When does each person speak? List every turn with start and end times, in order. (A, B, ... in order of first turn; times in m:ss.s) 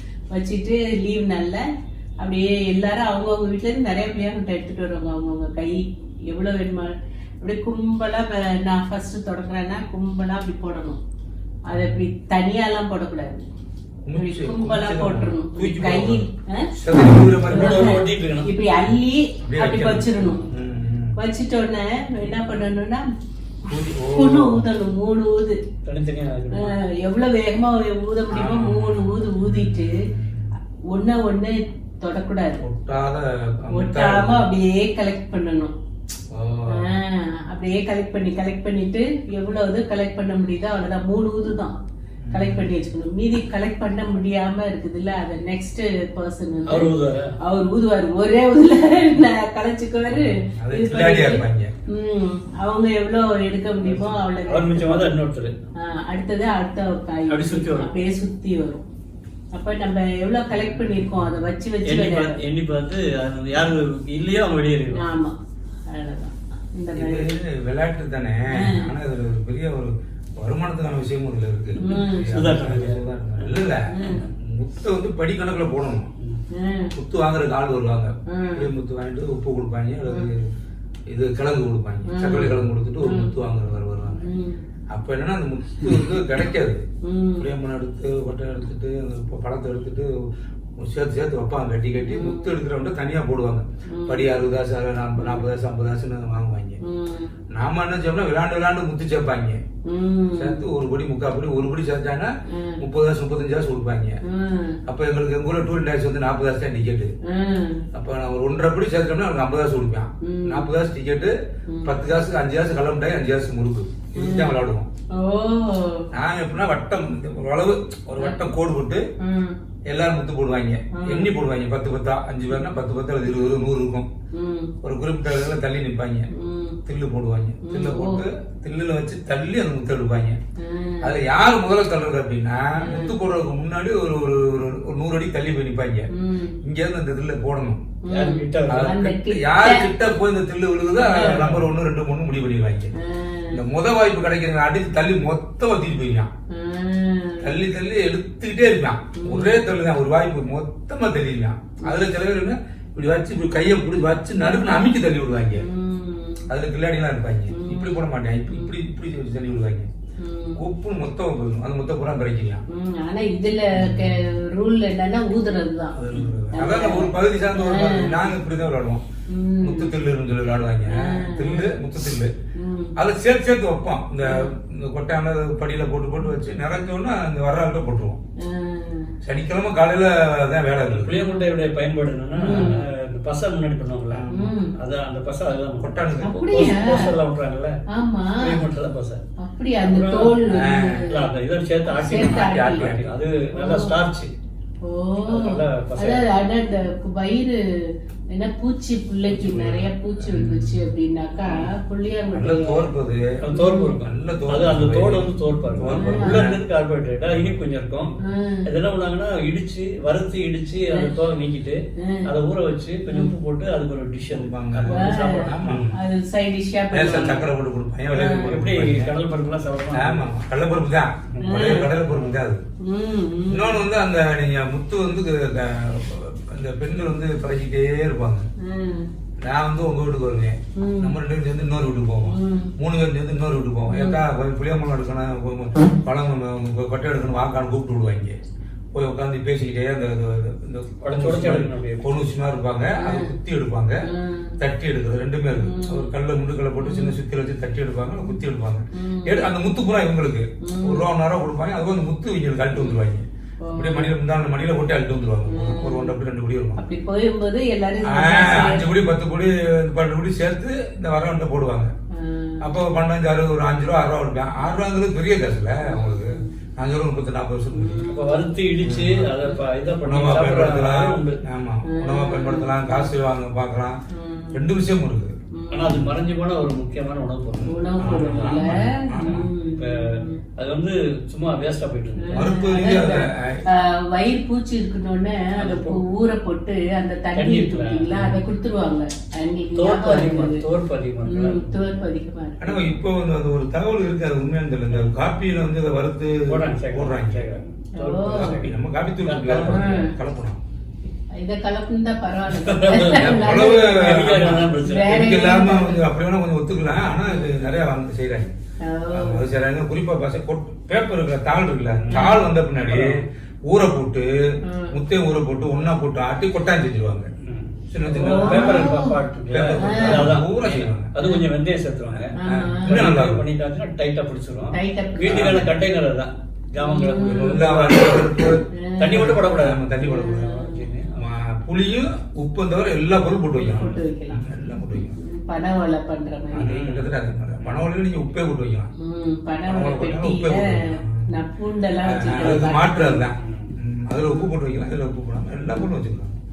0:00.3-0:01.6 A
0:02.2-0:11.0 A
0:11.7-0:13.4 A
0:11.7-0:12.0 B
0:14.0-0:18.0 B
0:14.1-0:16.7 A
0:17.5-0:18.5 C
0:17.5-0:20.5 A
0:19.4-0:21.2 B
0:21.2-0:23.0 A
0:23.7-0:24.7 B
0:23.7-0:25.6 A
0:25.8-0:26.7 C
0:26.5-0:30.0 A
0:28.3-0:30.5 B
0:30.9-0:32.6 A
0:32.6-0:34.5 B
0:33.7-0:35.7 A
0:36.3-0:36.9 B
0:36.7-0:41.8 A
0:42.2-0:42.7 B
0:42.3-0:55.2 A
0:46.7-0:47.4 C
0:50.1-0:51.7 B
0:53.8-0:55.6 C
0:55.8-0:58.8 A
0:57.3-0:57.9 C
0:59.5-1:02.4 A
1:00.5-1:01.4 B
1:01.8-1:05.0 C
1:04.9-1:05.4 A
1:05.9-1:07.3 A
1:07.0-1:13.8 B
1:08.5-1:08.9 A
1:11.8-1:12.5 A
1:11.8-1:14.3 C
1:13.9-1:14.2 A
1:14.4-1:16.1 B
1:16.5-1:16.9 A
1:17.0-1:20.4 B
1:18.3-1:18.7 A
1:21.1-1:24.3 B
1:22.1-1:23.3 A
1:24.1-1:24.6 A
1:24.9-1:26.8 B
1:27.0-1:27.4 A
1:27.4-1:30.1 B
1:30.8-1:36.8 B
1:32.1-1:32.5 A
1:33.9-1:34.3 A
1:35.2-1:35.4 A
1:36.8-1:37.3 A
1:37.5-1:39.6 B
1:39.9-1:40.6 A
1:40.4-1:44.2 B
1:42.5-1:42.8 A
1:44.2-1:44.8 A
1:44.9-1:47.1 B
1:47.3-1:47.8 A
1:47.9-1:54.9 B
1:50.2-1:50.6 A
1:51.7-1:52.0 A
1:54.2-1:54.6 A
1:55.1-1:56.0 A
1:56.1-1:59.0 B
1:58.2-1:58.5 A
1:59.2-1:59.6 A
1:59.9-2:04.1 B
2:00.9-2:01.3 A
2:04.3-2:04.7 A
2:04.8-2:06.3 B
2:06.3-2:06.8 A
2:06.8-2:10.4 B
2:07.6-2:08.2 A
2:10.6-2:11.1 A
2:11.0-2:16.1 B
2:12.8-2:13.1 A
2:16.1-2:16.6 A
2:16.6-2:17.8 B
2:18.0-2:19.9 A
2:18.1-2:18.9 C
2:18.7-2:22.9 B
2:21.0-2:21.5 A
2:21.3-2:21.7 C
2:23.0-2:23.6 A
2:23.5-2:26.3 B
2:26.5-2:27.5 A
2:27.4-2:35.6 B
2:29.2-2:29.6 A
2:34.4-2:34.9 A
2:35.6-2:36.5 A
2:36.5-2:39.9 B
2:37.5-2:38.7 A
2:40.2-2:40.6 A
2:40.6-2:42.6 B
2:42.7-2:48.3 A
2:43.8-2:44.2 B
2:46.0-2:49.0 B
2:49.3-2:49.9 A
2:49.6-2:52.3 B
2:50.9-2:51.7 A
2:52.6-2:52.9 A
2:53.0-2:58.2 B
2:58.4-2:59.1 A
2:59.2-3:01.2 B
3:00.8-3:04.2 C
3:02.4-3:02.8 A
3:02.4-3:02.8 B
3:04.1-3:04.5 B
3:04.3-3:04.7 A
3:04.8-3:07.8 C
3:05.8-3:06.5 B
3:06.2-3:07.1 A
3:07.9-3:08.6 A
3:08.4-3:09.2 C
3:09.4-3:11.3 A
3:09.8-3:10.4 C
3:10.5-3:11.1 B
3:11.1-3:14.3 C
3:11.9-3:12.9 A
3:12.0-3:13.0 B
3:13.6-3:14.0 A
3:14.8-3:17.6 A
3:15.3-3:16.2 C
3:18.3-3:22.9 A
3:19.3-3:20.8 B
3:22.4-3:23.3 B
3:23.4-3:28.1 C
3:23.5-3:23.9 A
3:24.0-3:26.6 B
3:25.9-3:26.5 A
3:28.2-3:28.7 A
3:28.7-3:35.9 C
3:32.0-3:32.3 A
3:33.1-3:33.3 A
3:34.3-3:36.0 B
3:34.9-3:37.5 A
3:36.9-3:39.1 B
3:38.1-3:38.5 A
3:38.4-3:40.3 C
3:39.9-3:42.6 B
3:41.4-3:42.4 C
3:41.4-3:41.9 A
3:42.8-3:43.8 A
3:43.5-3:48.5 B
3:48.6-3:49.1 A
3:49.4-3:58.4 B
3:50.8-3:51.1 A
3:52.3-3:52.7 A
3:53.9-3:54.2 A
3:58.9-4:04.0 B
4:01.0-4:02.0 C
4:03.0-4:03.3 A
4:04.1-4:04.5 A
4:04.6-4:16.8 B
4:05.5-4:06.1 A
4:06.8-4:07.2 A
4:08.9-4:09.5 A
4:10.6-4:11.1 A
4:12.7-4:13.0 A
4:13.6-4:14.1 A
4:15.5-4:16.2 A
4:16.8-4:18.9 A
4:18.1-4:21.9 B
4:22.2-4:22.8 A
4:22.6-4:28.1 B
4:25.8-4:26.5 A
4:27.7-4:28.4 A
4:28.1-4:31.4 C
4:28.8-4:29.3 B
4:30.0-4:34.0 B
4:31.9-4:33.1 A
4:34.1-4:34.6 A
4:34.5-4:35.3 B
4:35.6-4:36.0 A
4:35.7-4:38.7 C
4:37.7-4:40.4 A
4:38.0-4:39.5 B
4:39.2-4:42.5 C
4:42.2-4:50.6 A
4:42.3-4:43.6 B
4:45.6-4:46.0 C
4:47.4-4:48.2 C
4:49.8-4:51.6 C
4:51.3-4:53.0 A
4:52.6-4:57.5 B
4:56.5-5:00.0 C
4:58.0-4:58.6 A
4:58.3-5:00.6 B
4:59.6-5:00.1 A
5:01.4-5:06.0 A
5:02.5-5:05.2 C
5:02.9-5:08.5 B
5:07.2-5:07.5 A
5:08.8-5:09.4 A
5:09.1-5:14.3 B
5:11.9-5:13.2 C
5:12.1-5:12.5 A
5:14.6-5:14.9 A
5:14.9-5:17.3 B
5:17.4-5:22.3 C
5:17.9-5:19.0 B
5:18.2-5:19.2 A
5:19.5-5:21.1 B
5:19.8-5:20.3 A
5:21.2-5:21.5 A
5:22.1-5:23.4 B
5:22.4-5:23.0 A
5:22.8-5:28.2 C
5:24.7-5:25.6 A
5:25.3-5:25.7 B
5:26.8-5:27.6 A
5:27.2-5:30.5 B
5:28.8-5:29.4 A
5:29.0-5:31.2 C
5:30.0-5:30.8 A
5:31.2-5:35.2 B
5:33.6-5:34.5 A
5:35.2-5:36.7 A
5:36.5-5:38.9 B
5:36.6-5:37.8 C
5:39.0-5:43.3 A
5:39.7-5:41.3 B
5:42.0-5:46.4 B
5:43.4-5:43.7 C
5:44.2-5:44.5 A